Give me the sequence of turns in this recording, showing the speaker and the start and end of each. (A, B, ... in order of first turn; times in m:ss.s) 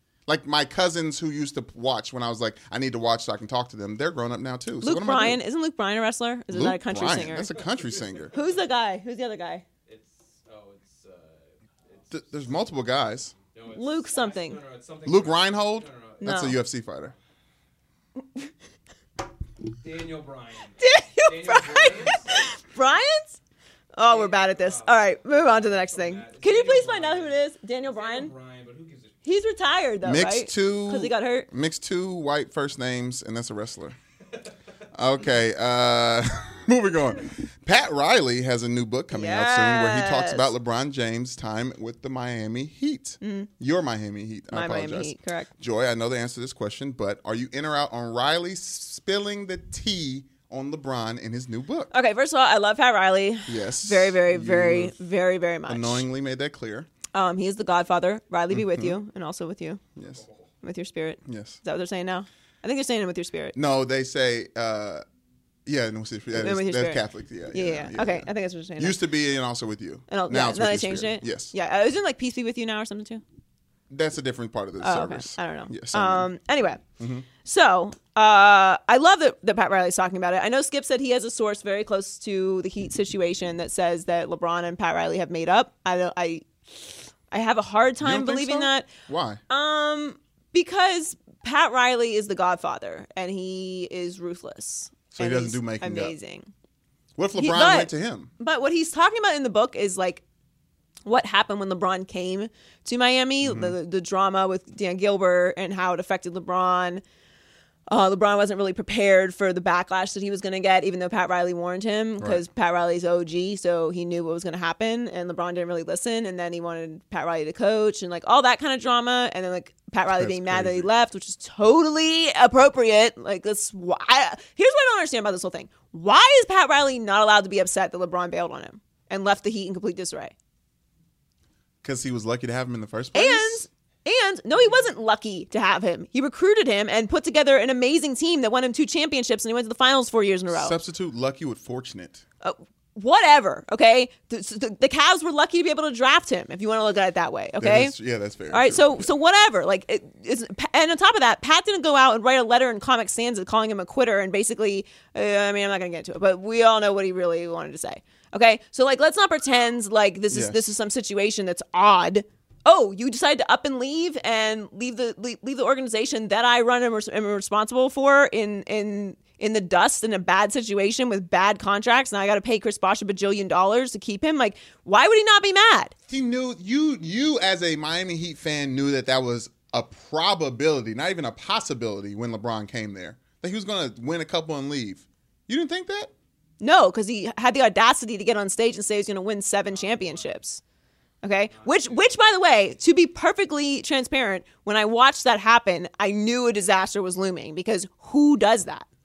0:00.3-0:05.4 A
0:04.8-0:07.6 B
0:06.5-0:08.3 A
0:07.6-0:08.6 C
0:08.3-0:09.6 B
0:09.9-0:12.8 C
0:12.1-0:13.4 A
0:13.3-0:16.4 C
0:13.7-0:14.6 B
0:15.0-0:17.1 A
0:16.2-0:16.6 B
0:19.8-0:22.3 C
0:20.8-0:23.4 B
0:24.0-0:28.3 B
0:24.0-0:29.2 C
0:29.2-0:31.5 B
0:30.0-0:34.0 A
0:34.9-0:51.9 A
0:39.1-0:40.5 B
0:43.2-0:43.5 B
0:44.5-0:45.5 B
0:51.9-0:56.1 B
0:53.5-0:55.0 A
0:55.7-0:56.9 A
0:57.1-0:59.8 B
0:58.5-0:59.0 A
1:00.0-1:00.2 A
1:00.0-1:00.5 C
1:00.6-1:03.6 B
1:01.2-1:01.6 A
1:03.5-1:05.0 A
1:05.7-1:11.5 A
1:06.3-1:09.0 B
1:10.1-1:13.2 B
1:13.9-1:16.3 A
1:14.8-1:16.8 B
1:17.0-1:17.3 A
1:17.4-1:28.9 B
1:28.0-1:29.4 A
1:29.5-1:36.5 B
1:35.1-1:36.2 A
1:37.2-1:38.3 A
1:37.4-1:40.2 B
1:41.0-1:47.0 B
1:43.4-1:43.8 A
1:47.9-2:10.3 B
2:00.1-2:00.9 A
2:11.8-2:13.7 A
2:13.1-2:20.8 B
2:20.5-2:22.2 A
2:22.4-2:28.0 B
2:27.6-2:29.1 A
2:28.5-2:55.9 B
2:40.3-2:40.6 A
2:56.1-3:06.1 A
3:06.6-3:10.6 B
3:09.7-3:10.3 C
3:11.2-3:18.9 B
3:11.5-3:12.1 C